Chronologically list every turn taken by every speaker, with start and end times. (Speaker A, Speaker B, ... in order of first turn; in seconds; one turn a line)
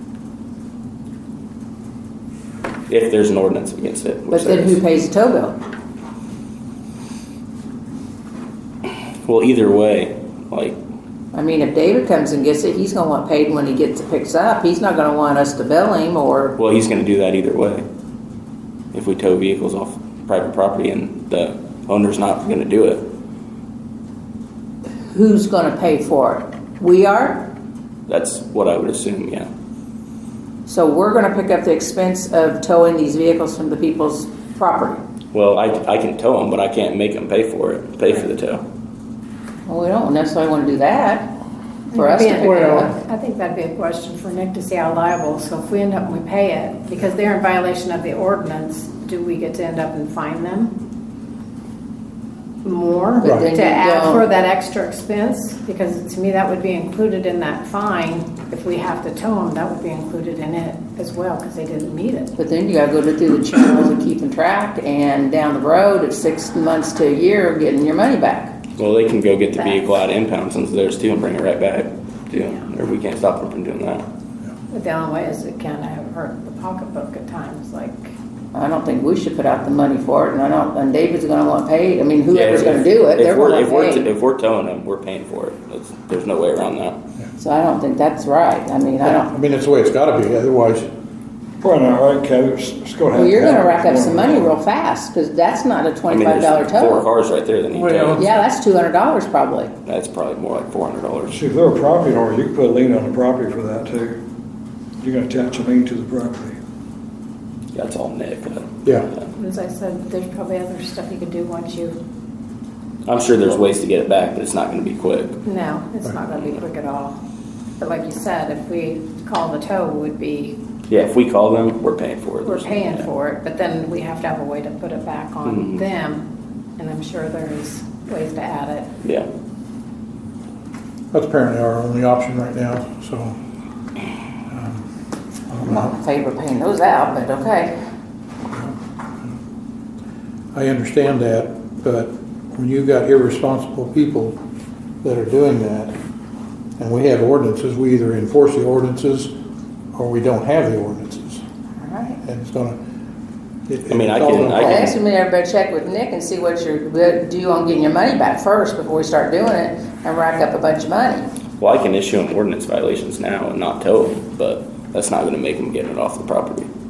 Speaker A: 2.9-4.8
Speaker B: 4.3-5.6
Speaker A: 9.2-10.8
Speaker B: 11.3-16.6
Speaker A: 16.6-17.8
Speaker A: 18.9-23.1
Speaker B: 25.1-27.5
Speaker A: 28.1-29.5
Speaker B: 30.6-35.0
Speaker A: 35.3-38.6
Speaker B: 39.6-41.3
Speaker B: 41.9-42.9
Speaker C: 41.9-50.7
Speaker D: 42.4-42.9
Speaker C: 52.6-62.3
Speaker B: 53.2-54.2
Speaker D: 53.2-53.5
Speaker B: 62.4-68.5
Speaker A: 68.8-74.0
Speaker C: 74.7-78.1
Speaker B: 78.5-84.1
Speaker A: 82.3-87.0
Speaker B: 87.4-89.3
Speaker D: 89.0-90.9
Speaker E: 91.6-94.5
Speaker B: 93.1-97.1
Speaker A: 96.1-98.3
Speaker D: 97.7-98.2
Speaker B: 98.1-99.7
Speaker A: 99.8-101.4
Speaker E: 101.3-104.2
Speaker E: 105.0-106.5
Speaker A: 107.7-109.3
Speaker D: 108.8-109.1
Speaker C: 109.3-112.0
Speaker A: 113.0-115.4
Speaker C: 115.4-117.2
Speaker C: 117.8-120.5
Speaker A: 120.9-123.1
Speaker C: 122.4-126.2
Speaker A: 125.5-125.8
Speaker C: 126.8-128.9
Speaker D: 131.1-133.4
Speaker D: 134.5-134.8
Speaker D: 135.5-135.9
Speaker B: 135.6-137.8
Speaker D: 138.5-139.3
Speaker D: 140.5-144.4
Speaker D: 145.0-145.9
Speaker D: 146.8-149.3
Speaker D: 149.9-151.4
Speaker B: 151.8-152.2
Speaker D: 152.2-152.8
Speaker D: 153.7-154.9
Speaker A: 153.9-155.0
Speaker B: 154.5-161.2
Speaker A: 161.6-166.7